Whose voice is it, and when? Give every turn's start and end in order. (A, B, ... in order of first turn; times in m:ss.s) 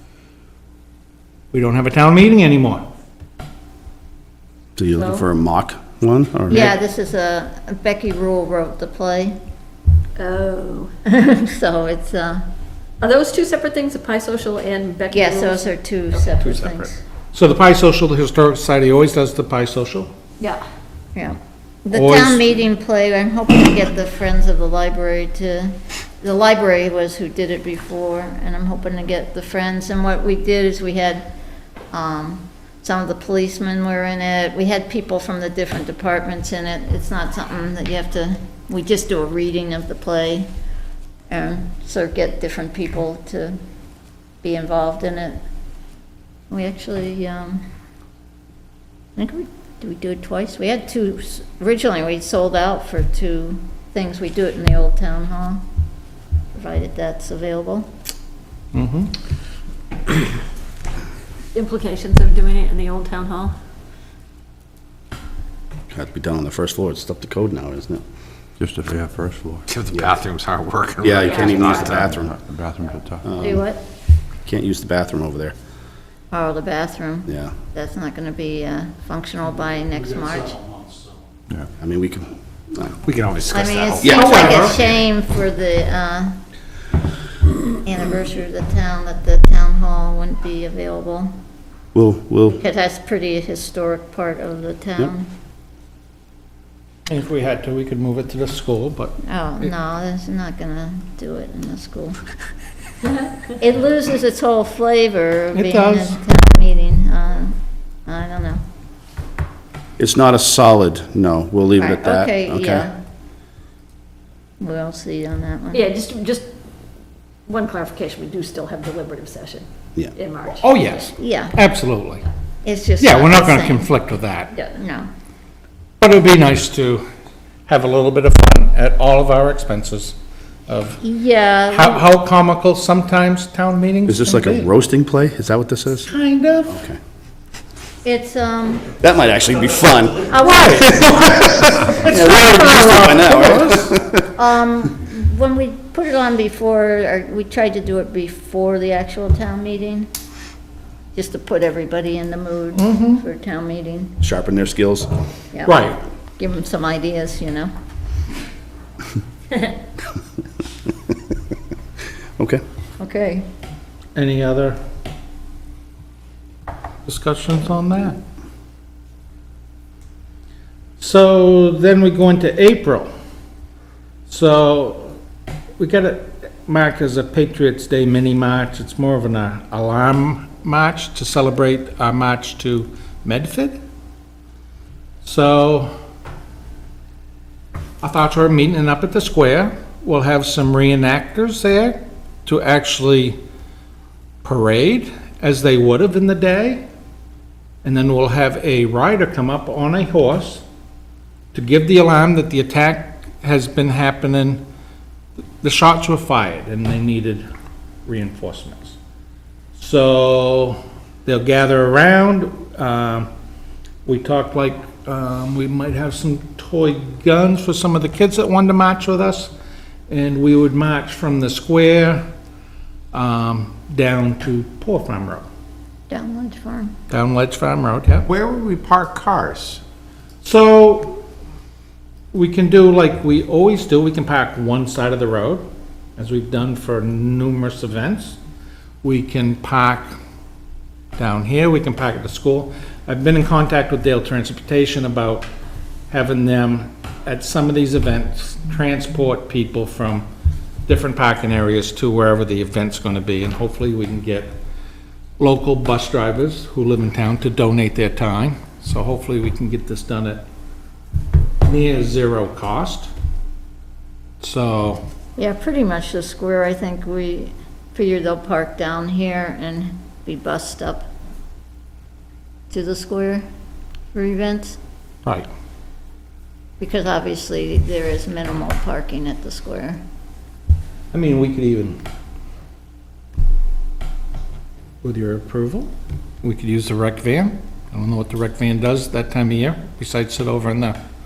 0:01.5-0:02.8 A
0:04.8-0:06.7 B
0:05.0-0:05.2 C
0:06.5-0:09.4 D
0:10.2-0:10.9 C
0:11.1-0:12.4 D
0:13.0-0:16.6 C
0:15.1-0:17.0 D
0:16.4-0:20.1 A
0:21.1-0:31.3 D
0:21.9-0:22.6 A
0:31.9-0:40.5 D
0:41.3-0:43.6 D
0:44.4-0:45.4 D
0:46.5-0:47.6 D
0:49.2-0:55.6 D
0:56.5-0:57.9 D
0:58.7-0:59.1 A
1:01.5-1:03.5 C
1:05.9-1:08.0 B
1:08.6-1:09.6 E
1:09.7-1:11.1 A
1:09.8-1:12.0 F
1:11.0-1:12.3 B
1:11.2-1:12.0 C
1:12.0-1:13.2 E
1:13.2-1:13.7 B
1:13.4-1:13.8 C
1:14.4-1:15.5 B
1:16.3-1:20.6 D
1:17.3-1:17.5 B
1:21.8-1:23.0 B
1:23.1-1:24.8 A
1:23.1-1:24.6 F
1:23.5-1:26.4 D
1:24.0-1:24.4 B
1:27.8-1:31.3 D
1:31.9-1:32.6 B
1:32.5-1:35.3 D
1:37.1-1:39.7 A
1:39.2-1:42.2 D
1:43.5-1:48.6 D
1:45.5-1:46.2 A
1:50.0-1:52.9 B
1:51.8-1:53.0 D
1:54.6-1:55.9 D
1:55.7-1:56.5 C
1:57.4-2:01.1 C
2:00.5-2:02.2 A
2:01.2-2:01.6 D
2:02.6-2:03.9 D
2:03.0-2:04.5 A
2:04.7-2:05.1 D
2:06.0-2:07.0 A
2:07.7-2:10.2 A
2:10.7-2:11.0 A
2:11.0-2:12.0 D
2:11.7-2:14.7 A
2:14.1-2:16.1 B
2:16.0-2:16.8 A
2:16.7-2:17.0 B
2:18.0-2:18.9 D
2:19.0-2:20.3 B
2:20.2-2:23.9 A
2:22.0-2:24.2 B
2:24.3-2:30.1 D
2:31.1-2:34.2 D
2:32.7-2:33.2 A
2:34.2-2:35.1 B
2:35.5-2:37.7 D
2:35.6-2:36.0 A
2:42.4-2:42.6 B
2:43.0-2:43.5 D
2:44.1-2:44.8 A
2:47.0-2:48.2 A
2:51.0-2:53.1 A
2:54.3-2:55.1 A
2:55.8-3:03.8 A
3:05.2-3:05.9 A
3:08.0-3:13.4 A
3:14.4-3:16.8 A
3:17.8-3:20.6 A
3:21.5-3:24.6 A
3:25.6-3:27.4 A
3:28.0-3:29.0 A
3:29.8-3:33.3 A
3:34.0-3:39.5 A
3:40.1-3:42.2 A
3:43.1-3:45.4 A
3:46.1-3:46.9 D
3:47.1-3:48.3 A
3:48.3-3:49.8 F
3:50.4-3:51.2 A
3:52.3-3:55.6 A
3:56.2-3:58.4 A
3:59.0-4:00.1 A
4:01.2-4:05.5 A
4:06.1-4:10.2 A
4:10.8-4:14.6 A
4:15.4-4:20.4 A
4:21.6-4:23.1 A
4:24.4-4:25.0 A
4:25.4-4:31.1 D
4:32.7-4:33.4 D
4:34.1-4:34.8 D
4:36.8-4:40.0 D
4:41.1-4:42.0 A
4:45.0-4:45.9 A
4:46.4-4:51.0 A